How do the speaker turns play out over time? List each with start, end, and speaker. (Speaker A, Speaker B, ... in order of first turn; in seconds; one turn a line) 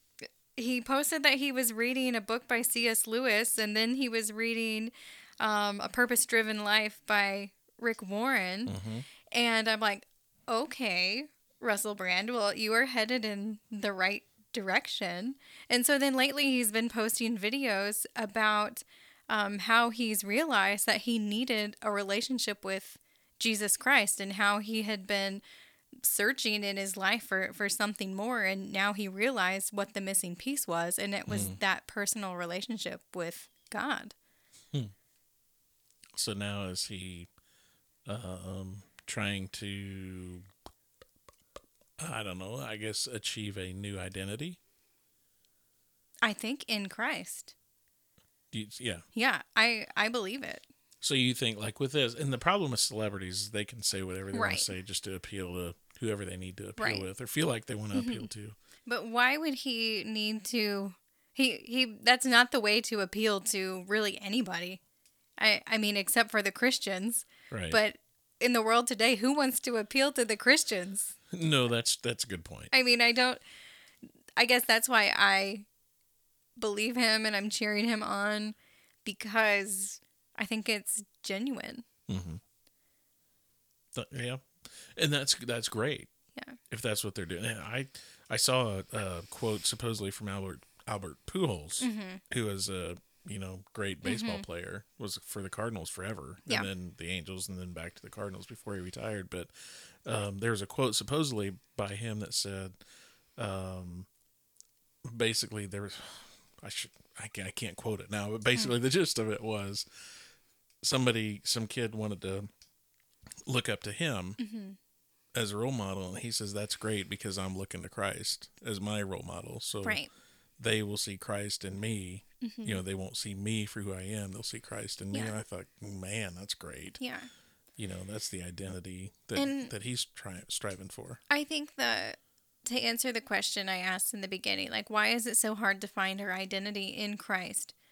Speaker A: 0.6-8.8
Speaker B: 8.7-9.1
Speaker A: 9.3-25.4
Speaker A: 26.0-34.1
Speaker B: 31.3-31.6
Speaker B: 36.1-37.3
Speaker B: 38.0-40.5
Speaker B: 42.0-44.6
Speaker A: 46.2-47.5
Speaker B: 48.5-49.0
Speaker A: 49.1-50.6
Speaker B: 51.0-58.5
Speaker A: 54.3-54.7
Speaker A: 56.8-57.1
Speaker A: 57.9-58.3
Speaker A: 58.9-64.8
Speaker A: 65.4-71.1
Speaker B: 67.5-67.8
Speaker B: 71.3-72.7
Speaker A: 72.7-73.4
Speaker A: 74.4-75.7
Speaker A: 76.6-81.8
Speaker B: 82.1-82.4
Speaker B: 83.9-86.1
Speaker B: 86.7-102.8
Speaker A: 91.8-92.2
Speaker A: 94.0-94.5
Speaker B: 103.4-104.1
Speaker B: 105.0-109.9
Speaker B: 110.8-112.5
Speaker B: 113.5-114.4
Speaker A: 114.4-114.8
Speaker B: 115.3-120.0
Speaker A: 119.8-120.1
Speaker B: 120.6-127.0
Speaker A: 122.4-122.8
Speaker A: 127.0-127.3
Speaker B: 127.8-131.2
Speaker A: 129.3-129.7
Speaker A: 131.3-137.7